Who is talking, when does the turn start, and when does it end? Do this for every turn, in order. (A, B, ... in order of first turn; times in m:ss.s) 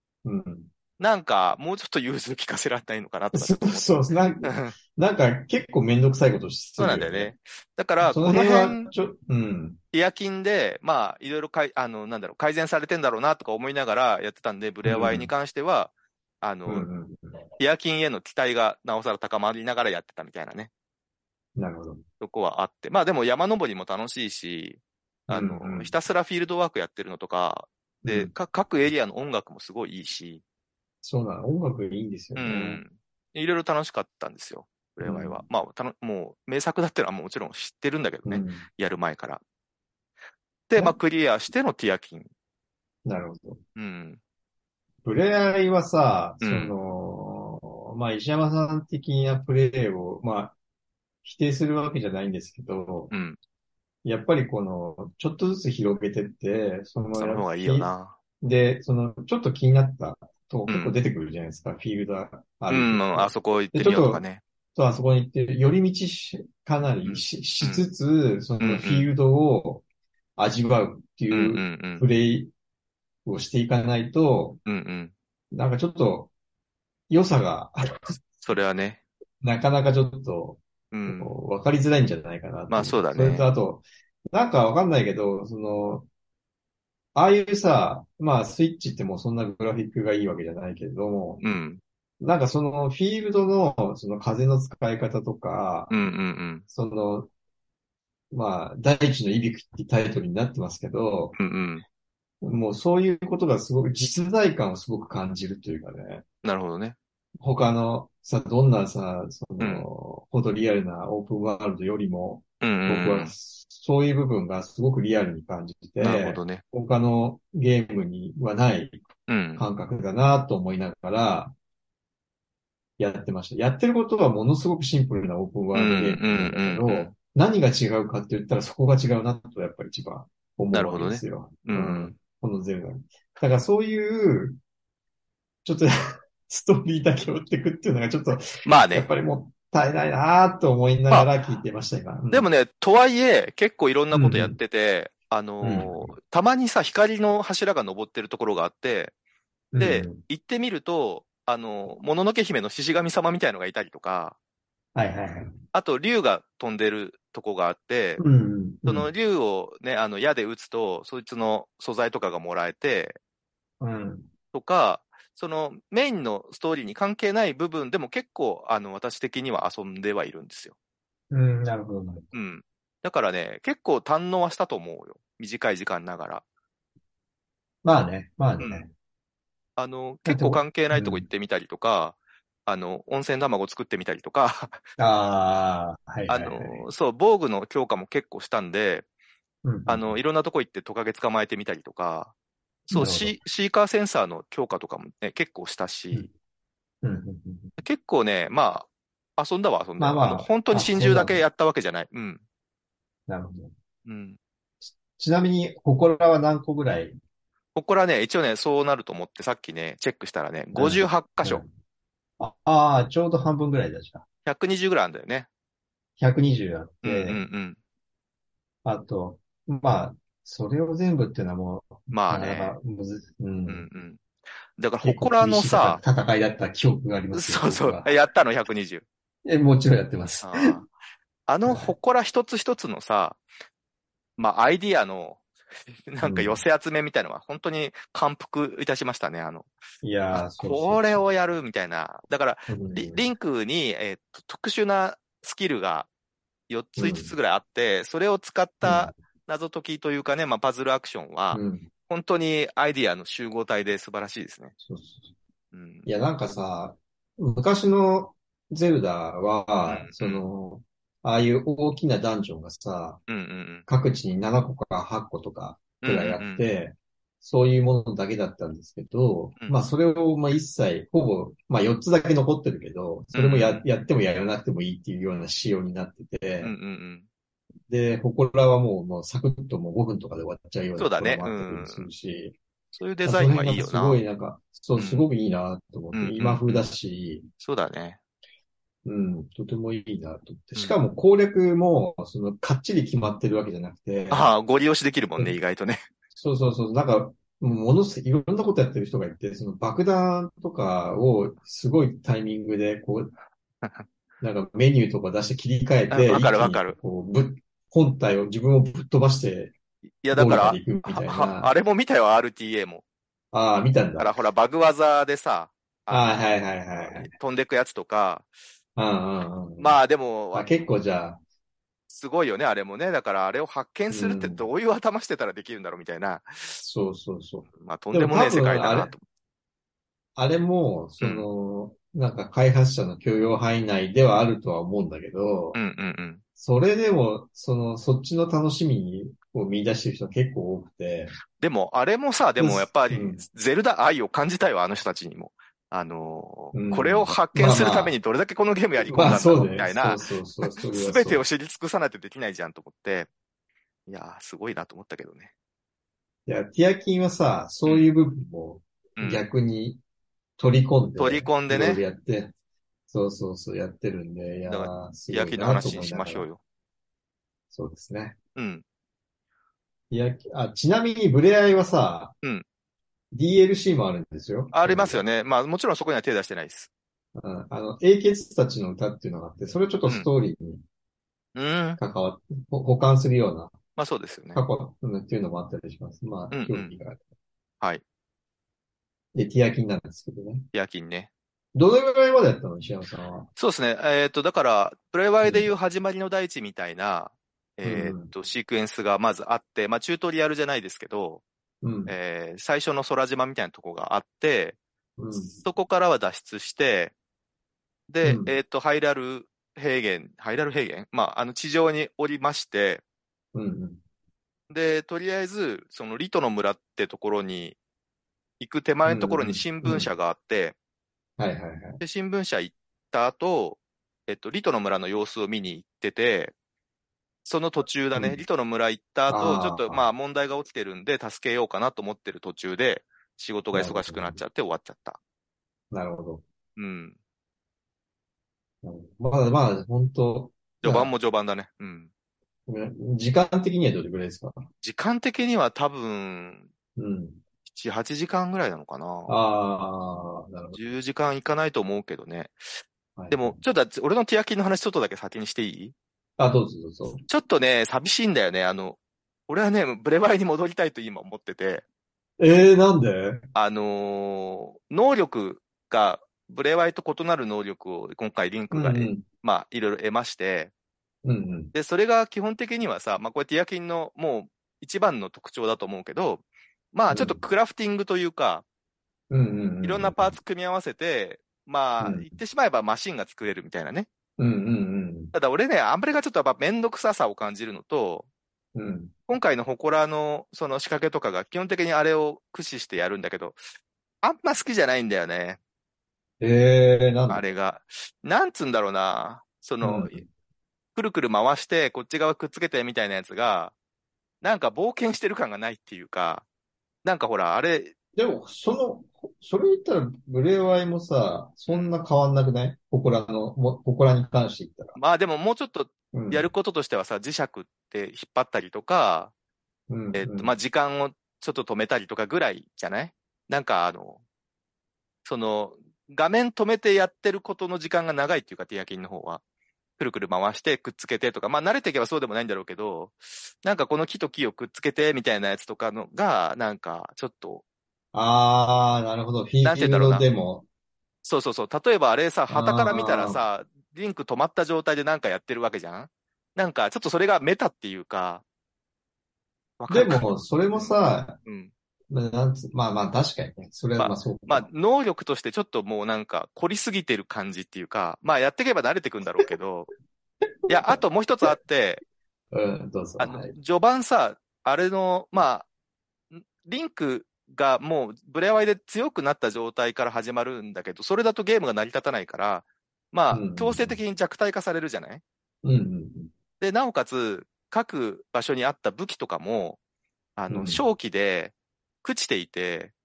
0:00.2-0:00.7 A
0:01.0-0:04.8 B
0:03.3-0:07.3 A
0:06.8-0:08.9 B
0:08.0-0:09.8 A
0:09.9-0:16.9 B
0:14.8-0:15.3 A
0:16.7-0:17.4 A
0:17.6-0:20.7 B
0:21.6-0:22.0 A
0:22.2-0:30.4 B
0:25.3-0:25.9 A
0:28.0-0:28.3 A
0:31.0-0:32.8 A
0:32.4-0:39.4 B
0:35.0-0:35.4 A
0:38.3-0:38.6 A
0:40.7-0:42.3 B
0:43.0-0:43.6 A
0:43.8-0:44.2 B
0:45.0-0:50.6 A
0:46.4-0:46.7 B
0:51.2-0:53.1 A
0:53.1-0:53.4 B
0:54.0-1:04.2 A
0:57.1-0:58.2 B
1:00.7-1:01.0 B
1:02.7-1:04.4 B
1:04.8-1:09.8 A
1:07.0-1:07.9 B
1:08.6-1:09.1 B
1:10.4-1:12.5 A
1:11.3-1:12.0 B
1:13.2-1:14.6 A
1:14.7-1:15.1 B
1:15.5-1:16.3 A
1:17.1-1:18.2 A
1:18.4-1:19.0 B
1:19.4-1:26.1 A
1:20.9-1:21.4 B
1:22.7-1:23.5 B
1:27.2-1:31.4 A
1:31.4-1:31.8 B
1:32.2-1:35.9 A
1:35.9-1:36.6 B
1:36.7-1:37.3 A
1:38.3-1:41.4 A
1:41.4-1:41.8 B
1:42.4-1:46.2 A
1:46.4-1:47.0 B
1:47.4-1:59.0 A
1:49.6-1:49.9 B
1:52.6-1:53.3 B
1:56.0-1:56.6 B
1:59.3-1:59.6 B
1:59.6-2:01.6 A
2:03.0-2:14.6 A
2:05.7-2:07.1 B
2:10.7-2:12.2 B
2:15.6-2:15.9 A
2:16.5-2:22.5 A
2:18.6-2:19.1 B
2:22.3-2:29.1 B
2:24.1-2:24.6 A
2:25.6-2:26.1 A
2:29.7-2:30.2 A
2:29.8-2:34.4 B
2:35.0-2:35.6 A
2:35.7-2:38.2 B
2:38.2-2:39.1 A
2:38.8-2:43.2 B
2:43.8-2:44.3 A
2:44.5-2:50.8 B
2:51.3-2:52.3 A
2:52.3-2:56.4 B
2:57.8-2:58.9 A
2:58.6-2:58.9 B
2:59.8-3:04.8 B
3:00.3-3:01.3 A
3:05.0-3:06.8 A
3:06.3-3:09.0 B
3:09.6-3:10.2 A
3:09.9-3:12.3 B
3:12.9-3:16.3 B
3:12.9-3:13.4 A
3:17.0-3:17.7 A
3:17.8-3:22.4 B
3:20.0-3:21.4 A
3:23.3-3:23.7 A
3:24.1-3:24.4 B
3:24.8-3:27.2 A
3:27.8-3:31.6 B
3:30.7-3:31.7 A
3:32.4-3:34.2 A
3:34.5-3:35.5 B
3:36.2-3:37.4 A
3:37.0-3:37.8 B
3:38.8-3:43.9 A
3:42.1-3:42.8 B
3:43.7-3:44.2 B
3:44.8-3:46.0 B
3:45.0-3:48.1 A
3:47.3-3:49.0 B
3:49.4-3:50.8 A
3:50.4-3:50.9 B
3:51.5-3:53.4 B
3:51.7-3:52.0 A
3:54.4-3:55.4 B
3:56.1-3:59.7 B
3:56.2-3:56.6 A
4:00.0-4:01.3 A
4:00.3-4:06.1 B
4:02.7-4:03.2 A
4:06.7-4:14.7 B
4:07.0-4:07.3 A
4:08.8-4:09.1 A
4:11.5-4:11.9 A
4:14.8-4:15.3 A
4:15.7-4:16.1 B
4:16.1-4:23.2 A
4:19.8-4:20.4 B
4:23.3-4:23.8 B
4:23.9-4:36.7 A
4:26.0-4:26.7 B
4:33.3-4:33.8 B
4:36.6-4:37.3 B
4:37.9-4:42.6 A
4:41.0-4:42.1 B
4:42.9-4:44.2 B
4:43.2-4:47.5 A
4:45.0-4:45.3 B
4:46.1-4:46.9 B
4:47.6-4:48.2 B
4:49.0-4:54.5 A
4:54.3-4:56.1 B
4:56.4-5:03.3 A
5:04.4-5:09.7 A
5:06.1-5:07.0 B
5:10.2-5:13.0 B
5:10.3-5:11.7 A
5:13.5-5:14.3 A
5:14.2-5:16.4 B
5:16.1-5:17.3 A
5:17.0-5:18.5 B
5:19.0-5:20.0 A
5:19.8-5:20.7 B
5:20.5-5:21.4 A
5:22.1-5:26.8 B
5:24.1-5:24.6 A
5:26.8-5:29.1 A
5:27.8-5:29.2 B
5:30.4-5:35.8 A
5:31.2-5:31.4 B
5:35.7-5:36.4 B
5:36.6-5:41.4 A
5:41.6-5:53.3 B
5:42.6-5:43.4 A
5:46.7-5:48.2 A
5:49.1-5:51.4 A
5:54.1-5:55.5 B
5:56.5-6:00.0 A
5:59.2-5:59.4 B
6:00.6-6:02.5 A
6:01.2-6:02.0 B
6:03.1-6:06.5 A
6:04.7-6:06.6 B
6:07.7-6:08.4 A
6:08.6-6:08.8 B
6:10.1-6:12.4 A
6:13.3-6:15.2 A
6:14.7-6:16.9 B
6:17.4-6:20.8 A
6:21.6-6:22.0 B
6:22.0-6:23.7 A
6:24.0-6:24.6 B
6:24.6-6:27.2 A
6:26.5-6:27.0 B
6:29.4-6:30.7 A
6:30.7-6:31.3 B
6:31.8-6:33.5 A
6:33.6-6:41.4 B
6:35.4-6:35.7 A
6:37.8-6:38.3 A
6:41.8-6:42.2 A
6:42.1-6:44.8 B
6:45.2-6:45.6 A
6:45.5-6:47.1 B
6:48.1-6:53.0 B
6:48.2-6:48.6 A
6:53.5-6:54.0 A
6:54.7-6:57.8 B
6:58.6-7:00.8 B
6:59.1-7:00.1 A
7:01.4-7:02.0 A
7:02.0-7:06.5 B
7:07.4-7:15.2 B
7:08.2-7:08.4 A
7:09.3-7:10.1 A
7:13.7-7:14.4 A
7:15.9-7:16.4 A
7:16.8-7:17.2 B
7:18.8-7:21.1 A
7:20.8-7:22.1 B
7:22.7-7:24.7 A
7:24.8-7:26.7 B
7:27.0-7:27.4 A
7:27.7-7:29.3 B
7:29.3-7:30.8 A
7:30.7-7:36.0 B
7:33.2-7:33.6 A
7:36.4-7:37.2 A
7:37.3-7:41.8 B
7:42.4-7:43.4 A
7:43.5-7:50.7 B
7:48.7-7:49.2 A
7:51.2-7:51.7 A
7:51.7-7:58.6 B
7:57.1-7:57.4 A
7:59.3-8:00.4 A
7:59.8-8:04.1 B
8:02.0-8:02.3 A
8:04.4-8:05.3 A
8:05.3-8:08.3 B
8:08.8-8:09.1 A
8:09.3-8:13.6 B
8:14.2-8:15.6 B
8:16.4-8:17.4 A
8:17.3-8:20.2 B
8:19.8-8:20.2 A
8:21.0-8:23.7 B
8:24.4-8:26.4 B
8:27.0-8:27.9 B
8:28.2-8:35.0 A
8:31.7-8:32.0 B
8:35.0-8:39.3 B
8:36.1-8:36.5 A
8:39.9-8:40.5 A
8:40.1-8:44.2 B
8:45.2-8:49.4 B
8:50.0-8:57.6 B
8:58.1-9:00.7 A
8:59.6-9:00.3 B
9:01.2-9:08.4 B
9:02.5-9:03.4 A
9:09.8-9:11.7 B
9:09.9-9:11.4 A
9:12.1-9:14.7 A
9:14.0-9:19.9 B
9:20.6-9:21.5 A
9:20.7-9:22.0 B
9:22.5-9:23.5 A
9:23.2-9:25.7 B
9:26.3-9:35.2 B
9:33.3-9:34.0 A
9:35.6-9:36.3 A
9:36.6-9:39.8 B
9:40.4-9:42.9 B
9:40.5-9:40.8 A